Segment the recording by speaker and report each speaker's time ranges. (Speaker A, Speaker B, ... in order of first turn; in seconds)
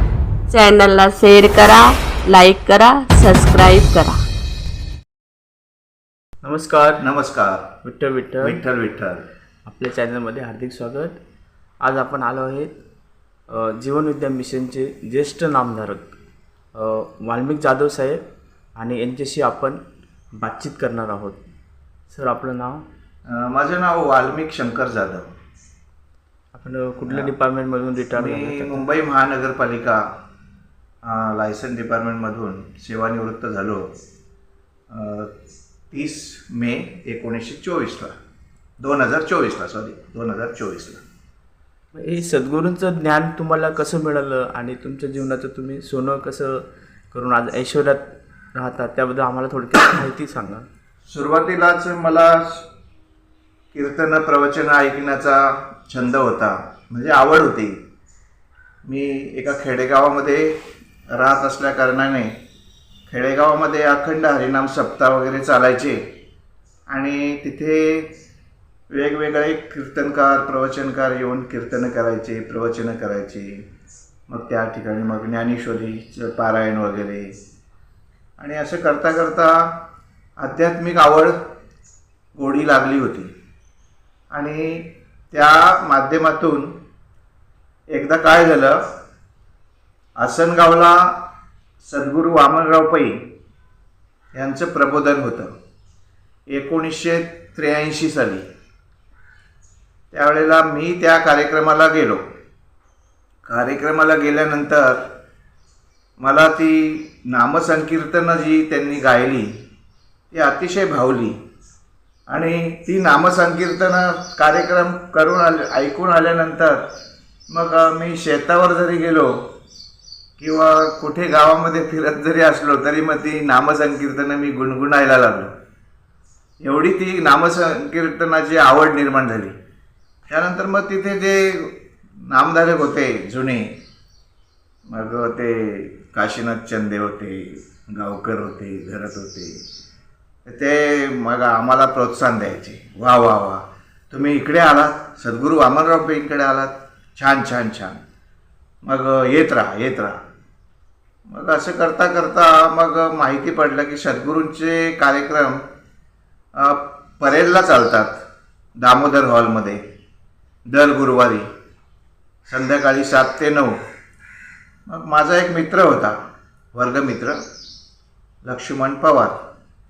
Speaker A: 0.5-4.2
Speaker B: 6.4-7.0, 7.8-8.6, 9.7-11.2, 11.8-12.7, 13.5-16.0, 16.7-18.2, 18.8-19.8, 20.3-21.4, 22.1-22.8, 26.5-28.8, 42.0-50.7
Speaker C: 7.0-7.7, 8.4-9.2, 23.2-25.3, 27.1-27.3, 28.1-30.0, 31.0-33.9, 34.9-35.3, 35.9-38.2, 38.8-41.0, 51.0-52.7, 53.7-57.8, 58.9-62.4, 63.1-66.1, 66.9-68.1, 68.9-73.6, 74.3-77.3, 78.4-79.8, 80.4-81.4, 82.3-83.3, 84.3-86.8, 87.9-88.8, 90.2-91.2, 91.8-93.3, 94.3-95.5, 96.5-98.5, 100.1-102.2, 103.5-105.0, 106.2-109.5, 110.3-111.4, 112.3-116.9, 117.5-119.3, 120.4-125.5, 126.6-129.6, 130.3-133.8, 134.9-139.6, 140.4-148.0, 148.8-150.2, 151.3-155.6, 156.6-158.2, 158.8-159.8, 160.7-161.5, 162.5-163.8, 164.9-166.2, 166.7-167.4, 168.4-169.3